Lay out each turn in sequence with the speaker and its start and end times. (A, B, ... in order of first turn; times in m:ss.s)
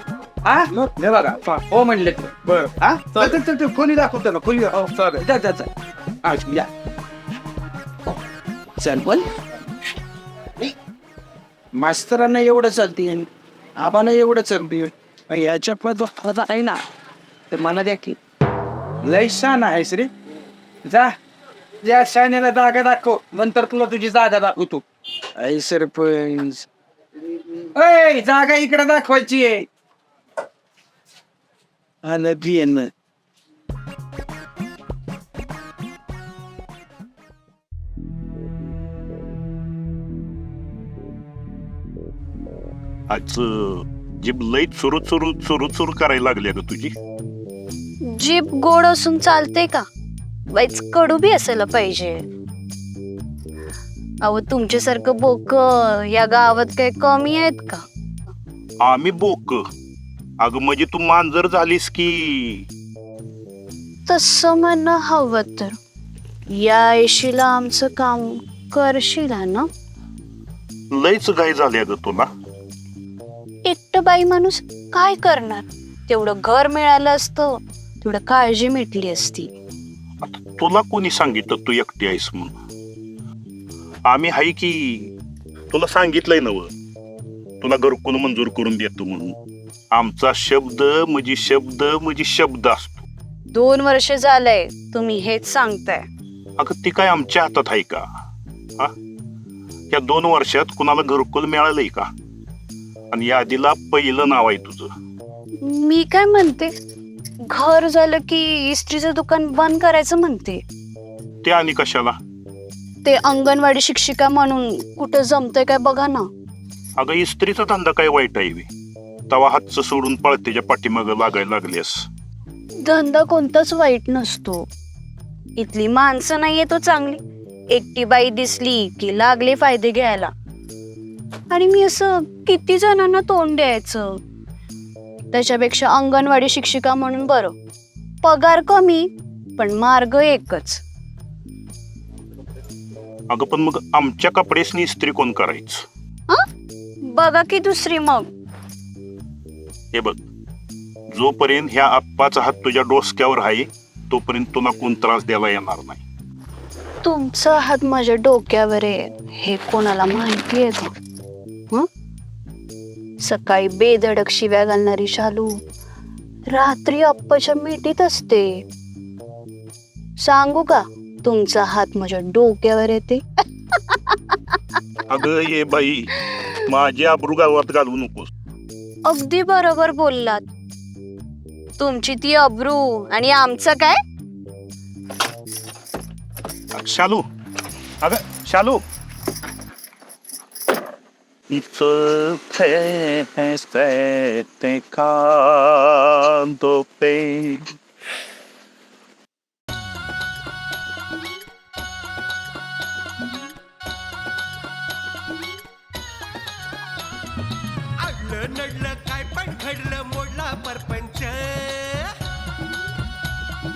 0:00.4-0:05.7 A
0:06.2-0:06.7 A
0:08.8-0:09.3 A
0:11.7-0:16.8 A
0:17.5-0:18.0 A
0:19.0-0:20.1 A
0:20.8-0:21.1 A
0:21.8-0:24.8 A
0:25.4-0:26.6 A
0:27.7-0:29.7 A
0:32.0-0:32.9 A
0:43.1-0:46.9 B
0:48.1-0:49.8 C
0:50.5-0:52.2 C
0:54.2-0:57.8 C
0:58.8-0:59.6 B
1:00.4-1:02.6 B
1:04.0-1:05.8 C
1:06.5-1:09.7 C
1:10.9-1:12.3 B
1:13.6-1:19.5 C
1:20.2-1:22.5 B
1:24.1-1:25.1 B
1:25.7-1:26.7 B
1:27.6-1:29.3 B
1:29.9-1:33.0 B
1:33.5-1:36.0 C
1:36.6-1:38.0 B
1:39.9-1:42.1 B
1:43.1-1:44.9 B
1:45.6-1:46.7 C
1:47.5-1:50.6 C
1:51.4-1:52.2 B
1:53.0-1:56.3 C
1:57.0-1:58.7 B
1:59.3-2:02.0 B
2:02.8-2:04.7 C
2:05.6-2:10.3 C
2:11.5-2:14.2 C
2:15.3-2:17.5 C
2:18.2-2:20.8 C
2:23.3-2:25.8 B
2:27.1-2:28.3 C
2:29.9-2:30.2 B
2:31.1-2:36.0 B
2:37.0-2:40.9 C
2:43.2-2:45.5 C
2:46.4-2:48.6 C
2:50.2-2:53.2 C
2:53.9-2:54.4 C
2:55.1-2:58.3 B
2:59.0-3:00.4 C
3:01.8-3:04.0 C
3:06.7-3:07.2 B
3:08.0-3:08.8 B
3:11.5-3:17.6 B
3:28.0-3:32.1 D